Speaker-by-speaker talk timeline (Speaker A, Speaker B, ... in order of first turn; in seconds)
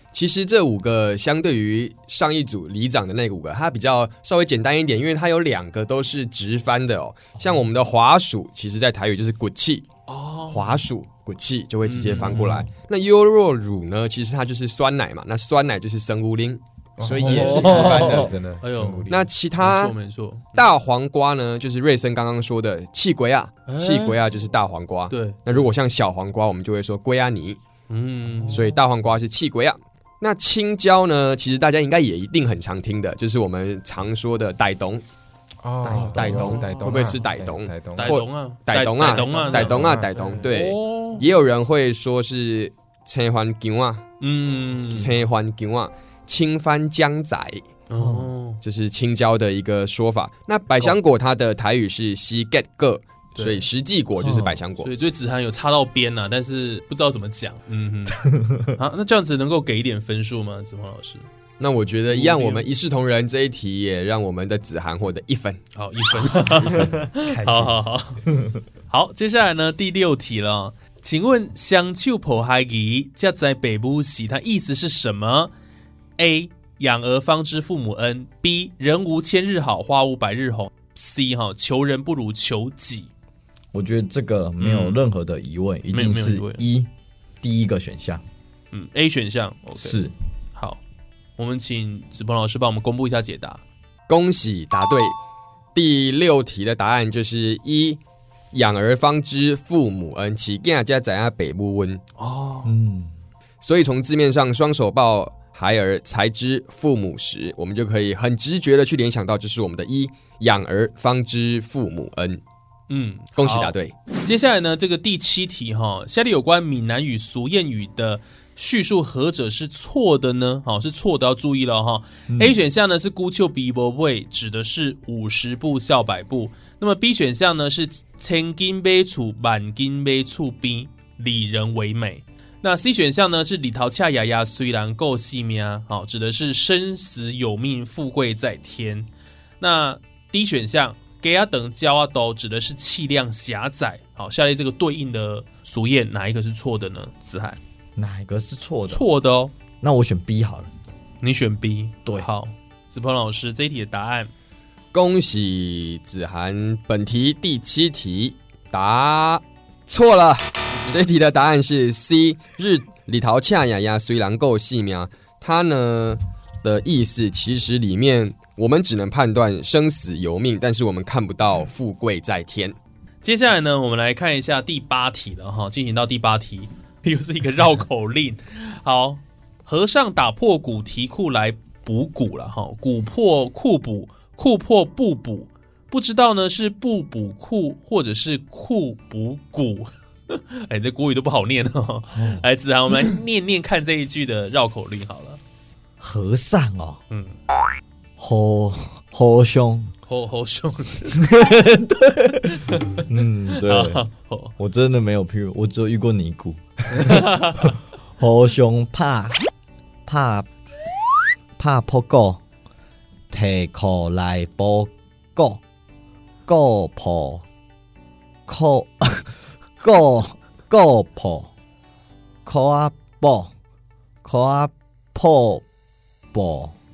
Speaker A: 0.1-9.9, 10.5-18.3, 19.1-19.9, 20.5-27.6, 28.5-35.0, 35.8-44.0, 44.9-47.6, 48.6-54.9, 61.6-65.6, 94.1-95.2, 95.7-98.0, 98.5-102.0, 103.6-112.4, 113.4-113.9, 154.9-172.8
Speaker B: 10.1-10.8, 11.8-12.6, 17.1-20.6, 23.7-24.2, 25.1-25.7, 27.9-28.6, 36.2-36.5, 37.9-41.3, 44.2-45.1, 47.9-48.6, 53.3-53.6, 54.2-61.3, 62.1-62.7, 65.7-68.3, 68.9-75.5, 76.2-83.1, 84.6-85.0, 85.9-86.6, 88.7-90.8, 91.4-93.6, 102.2-102.7, 112.9-139.1, 139.6-147.6, 148.9-149.5, 151.2-154.3, 173.2-195.4, 197.1-197.4, 200.1-201.3, 202.5-203.0, 203.6-204.5, 206.9-207.8
Speaker C: 12.3-12.6, 17.1-18.4, 35.9-36.6, 47.9-48.3, 58.1-58.7, 66.5-68.6, 83.7-86.9, 87.4-88.2, 89.8-90.1, 102.6-103.2, 122.3-122.6, 147.9-149.0, 149.8-150.7, 192.1-192.4, 196.0-197.0, 198.2-199.9, 201.1-204.1, 204.6-209.4, 210.1-210.5, 211.6-212.4, 213.3-215.6, 216.4-217.4, 218.5-221.5, 222.4-223.5, 224.2-225.6, 226.3-226.8
Speaker D: 17.0-19.2, 35.6-38.2, 39.5-40.4